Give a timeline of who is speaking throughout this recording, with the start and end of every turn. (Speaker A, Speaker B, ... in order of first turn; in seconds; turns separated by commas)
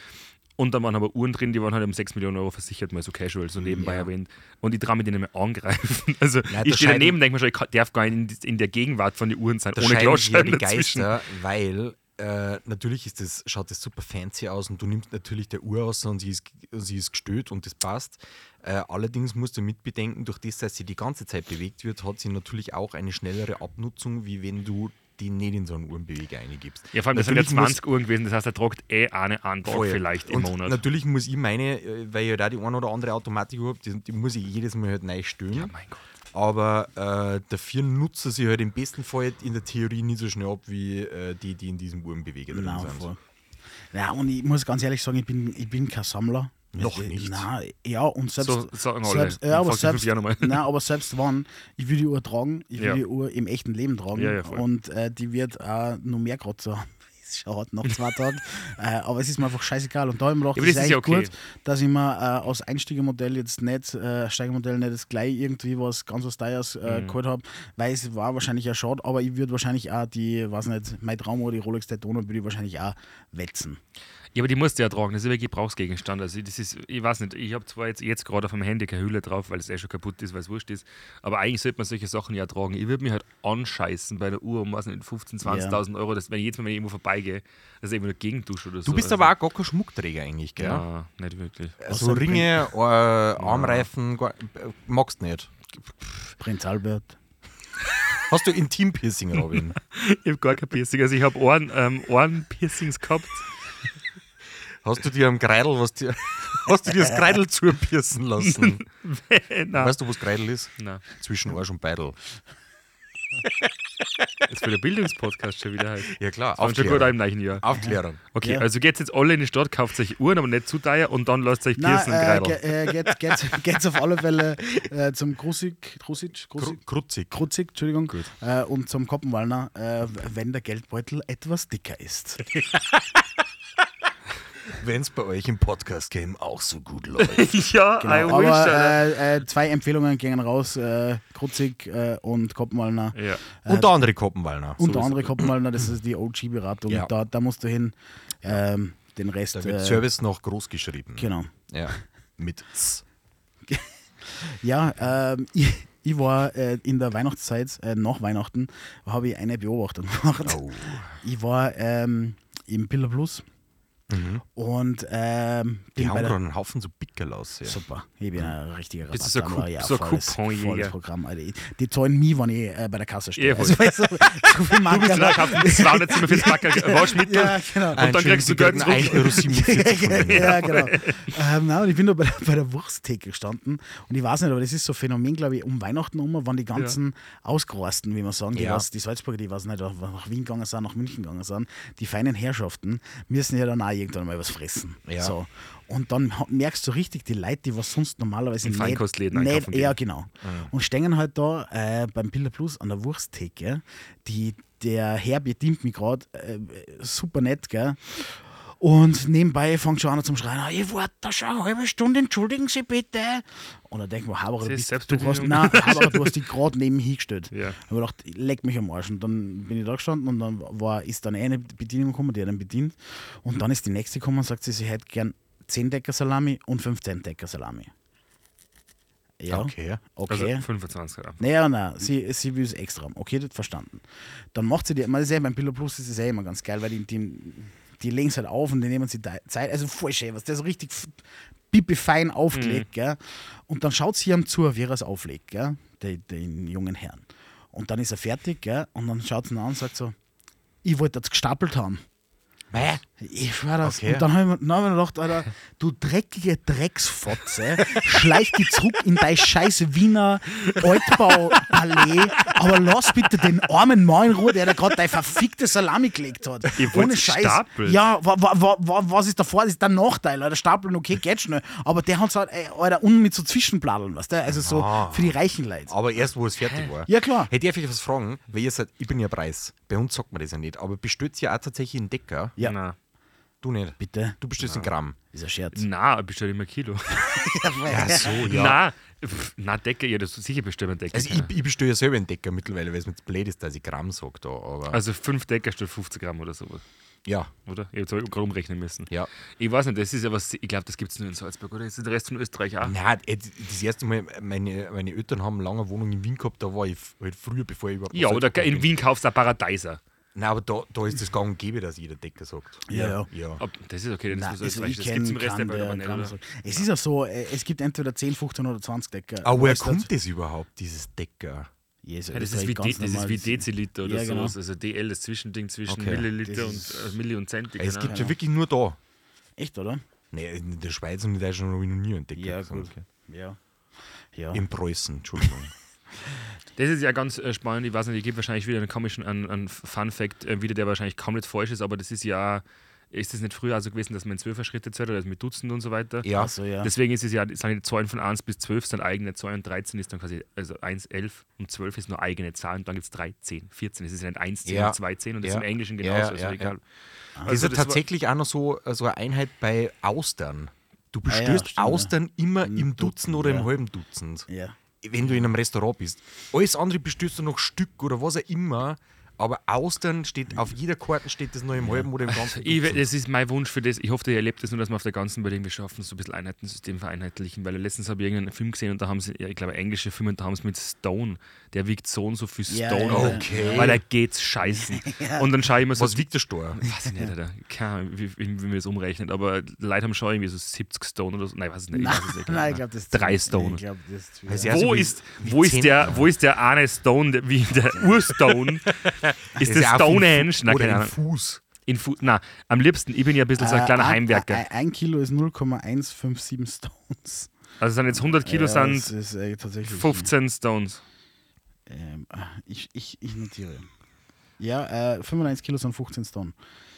Speaker A: 0.6-11.1, Speaker B: 3.6-4.1, Speaker B: 6.5-7.2, Speaker B: 9.8-27.8, Speaker A: 26.9-30.8, Speaker B: 29.6-35.7, Speaker A: 35.5-36.0, Speaker B: 36.3-43.1, Speaker C: 42.5-43.2, Speaker C: 43.9-73.8, Speaker B: 46.7-47.5, Speaker A: 48.4-50.7, Speaker A: 54.1-54.6, Speaker A: 60.5-61.3, Speaker A: 66.8-67.2, Speaker A: 74.3-89.3, Speaker C: 85.4-85.8, Speaker B: 88.8-90.8, Speaker A: 90.6-91.8, Speaker B: 91.8-95.5, Speaker C: 91.9-92.6, Speaker A: 93.4-93.8, Speaker C: 96.4-97.2, Speaker B: 98.3-99.8, Speaker A: 99.5-103.5, Speaker B: 104.8-108.8, Speaker A: 108.4-109.9, Speaker B: 109.7-112.2, Speaker A: 110.8-111.0, Speaker A: 114.5-122.9, Speaker B: 116.1-118.2, Speaker C: 117.7-118.6, Speaker C: 121.8-132.4, Speaker B: 126.6-127.3, Speaker B: 134.7-137.5, Speaker A: 137.2-139.1, Speaker C: 138.0-143.9, Speaker A: 143.1-143.4, Speaker B: 143.7-145.1, Speaker C: 144.8-150.1, Speaker A: 144.9-145.2, Speaker B: 149.5-153.0, Speaker C: 151.2-151.5, Speaker C: 153.7-163.4, Speaker B: 160.4-161.2, Speaker B: 164.1-164.4, Speaker C: 164.5-166.3, Speaker B: 166.0-167.8, Speaker C: 167.6-227.9, Speaker A: 169.1-170.9, Speaker A: 173.4-179.4, Speaker B: 177.9-180.9, Speaker A: 180.3-181.3, Speaker B: 188.5-188.8, Speaker B: 195.1-195.3, Speaker A: 198.6-200.0, Speaker B: 200.4-200.7, Speaker A: 214.6-216.3, Speaker A: 217.5-217.8, Speaker C: 229.4-230.6, Speaker B: 229.5-230.0, Speaker A: 230.3-231.4, Speaker C: 231.4-234.0, Speaker C: 234.5-250.1, Speaker A: 242.5-242.8, Speaker C: 250.8-252.0, Speaker B: 252.7-253.0, Speaker C: 253.2-275.9, Speaker B: 253.8-254.2, Speaker A: 266.8-268.0, Speaker B: 274.5-282.6, Speaker A: 276.6-276.9, Speaker C: 277.1-277.5, Speaker A: 282.6-282.9, Speaker B: 283.6-285.2, Speaker C: 284.0-284.4, Speaker C: 285.3-285.8, Speaker A: 285.7-287.5, Speaker C: 287.1-288.4, Speaker B: 287.9-288.8, Speaker A: 288.2-291.5, Speaker B: 291.1-295.0, Speaker A: 294.9-296.8, Speaker B: 297.2-297.5, Speaker A: 297.6-302.9, Speaker B: 302.8-308.9, Speaker A: 308.1-310.0, Speaker B: 310.3-313.6, Speaker C: 312.9-313.3, Speaker A: 313.6-316.4, Speaker C: 314.3-320.1, Speaker B: 319.4-321.7, Speaker C: 322.0-324.5, Speaker A: 322.3-328.2, Speaker B: 325.9-326.3, Speaker C: 326.4-327.2, Speaker B: 327.8-329.0, Speaker C: 328.1-328.4, Speaker C: 329.6-330.0, Speaker B: 330.3-333.0, Speaker C: 332.4-333.6, Speaker C: 334.3-334.6, Speaker B: 334.5-335.7, Speaker A: 336.8-346.3, Speaker B: 346.2-346.5, Speaker C: 346.3-346.9, Speaker A: 346.8-356.8, Speaker B: 354.6-356.7, Speaker A: 357.4-358.0, Speaker B: 357.4-364.5, Speaker C: 361.3-363.7, Speaker C: 364.5-364.8, Speaker B: 365.0-373.1, Speaker A: 372.3-393.8, Speaker C: 382.7-384.0, Speaker B: 383.1-384.0, Speaker C: 384.6-385.5, Speaker B: 385.9-386.8, Speaker C: 386.9-387.3, Speaker C: 391.9-394.8, Speaker B: 394.5-396.3, Speaker A: 394.7-399.0, Speaker B: 398.0-401.6, Speaker A: 399.6-401.1, Speaker A: 401.9-404.6, Speaker C: 403.6-407.5, Speaker A: 407.8-409.1, Speaker C: 408.1-410.3, Speaker A: 409.9-411.0, Speaker C: 411.9-413.9, Speaker C: 414.6-416.5